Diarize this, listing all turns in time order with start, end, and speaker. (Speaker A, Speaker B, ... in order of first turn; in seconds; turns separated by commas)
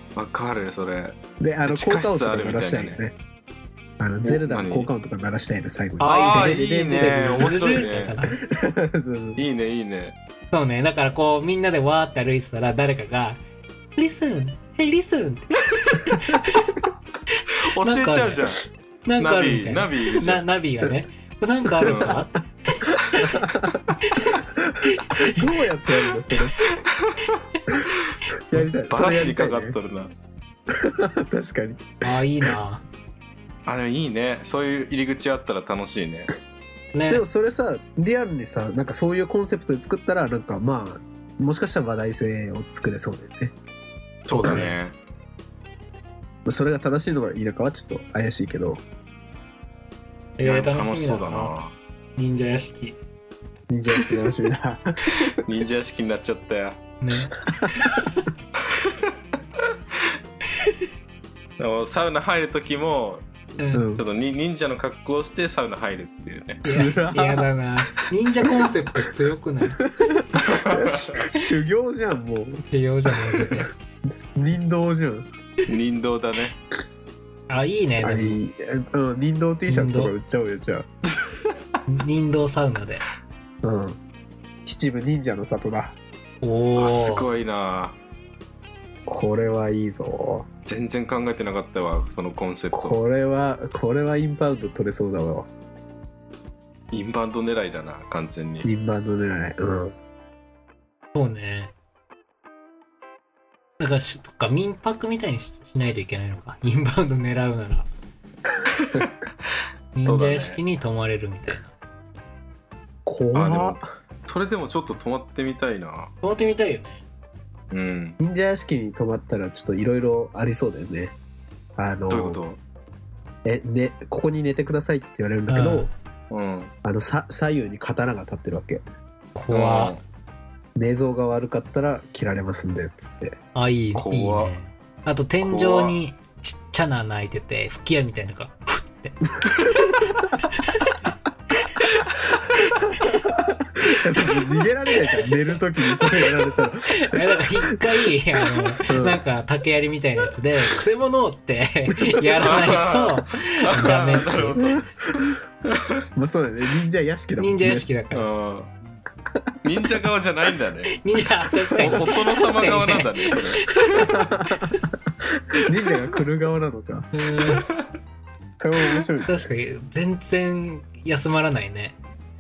Speaker A: 0.2-3.0, Speaker B: 1.4-3.1, Speaker B: 4.0-7.1, Speaker A: 4.2-4.9, Speaker A: 6.0-8.2, Speaker C: 6.0-8.4, Speaker B: 8.4-9.4, Speaker A: 9.4-10.2, Speaker C: 10.5-13.4, Speaker C: 14.0-16.8, Speaker A: 17.7-18.6, Speaker C: 17.8-18.4, Speaker C: 19.1-23.4, Speaker A: 19.2-20.4, Speaker A: 21.8-22.2, Speaker B: 21.9-22.1, Speaker B: 23.1-23.9, Speaker C: 24.0-24.4, Speaker B: 24.6-26.6, Speaker C: 24.9-25.4, Speaker B: 28.5-29.8, Speaker A: 28.9-30.1, Speaker B: 30.7-32.5, Speaker C: 32.0-32.8, Speaker A: 33.7-36.3, Speaker C: 36.9-37.2, Speaker B: 37.1-43.5, Speaker A: 44.3-45.0, Speaker C: 44.3-44.8, Speaker B: 46.5-48.8, Speaker C: 50.4-51.5, Speaker A: 50.4-51.8, Speaker C: 52.2-53.0, Speaker B: 53.7-55.4, Speaker A: 55.1-56.8, Speaker C: 57.0-58.3, Speaker B: 57.6-58.1, Speaker A: 58.7-59.0, Speaker C: 60.5-60.8, Speaker A: 61.6-63.2, Speaker C: 63.6-63.9, Speaker B: 63.7-64.0, Speaker A: 64.0-66.7, Speaker B: 66.6-67.5, Speaker C: 66.7-69.8, Speaker B: 69.8-73.7, Speaker A: 70.5-71.3, Speaker C: 72.7-73.7, Speaker B: 74.3-75.3, Speaker A: 75.7-76.5, Speaker C: 77.5-78.4, Speaker B: 78.0-80.9, Speaker C: 79.7-80.1, Speaker C: 81.9-83.0, Speaker B: 83.6-84.0, Speaker B: 84.7-86.0, Speaker C: 86.4-87.3, Speaker A: 86.8-88.0, Speaker B: 89.1-90.5, Speaker A: 90.7-93.0, Speaker B: 92.7-95.5, Speaker A: 96.9-98.7, Speaker B: 98.6-100.0, Speaker C: 101.1-101.7, Speaker C: 103.8-107.9, Speaker A: 108.8-109.1, Speaker C: 110.0-111.7, Speaker A: 110.0-110.6, Speaker B: 113.1-113.8, Speaker A: 113.3-116.1, Speaker C: 116.2-117.0, Speaker A: 117.7-118.2, Speaker B: 118.2-121.1, Speaker B: 121.8-122.4, Speaker A: 122.1-122.6, Speaker B: 123.5-125.9, Speaker C: 125.5-125.9, Speaker A: 126.3-126.7, Speaker B: 126.8-128.8, Speaker C: 129.3-130.0, Speaker A: 129.5-130.0, Speaker B: 130.8-133.4, Speaker C: 133.6-141.0, Speaker A: 133.9-134.5, Speaker A: 135.4-136.0, Speaker C: 141.7-142.1, Speaker C: 143.0-143.2, Speaker B: 143.3-147.2, Speaker C: 143.9-144.4, Speaker C: 146.9-154.9, Speaker B: 148.9-149.2, Speaker A: 152.4-156.1, Speaker B: 154.6-155.3, Speaker B: 156.2-157.9, Speaker C: 157.4-158.3, Speaker A: 158.1-158.7, Speaker A: 159.6-161.0, Speaker C: 161.0-164.8, Speaker A: 161.8-164.0, Speaker B: 164.0-167.1, Speaker C: 167.1-167.7, Speaker A: 167.5-167.9, Speaker B: 168.6-169.5, Speaker C: 169.3-172.0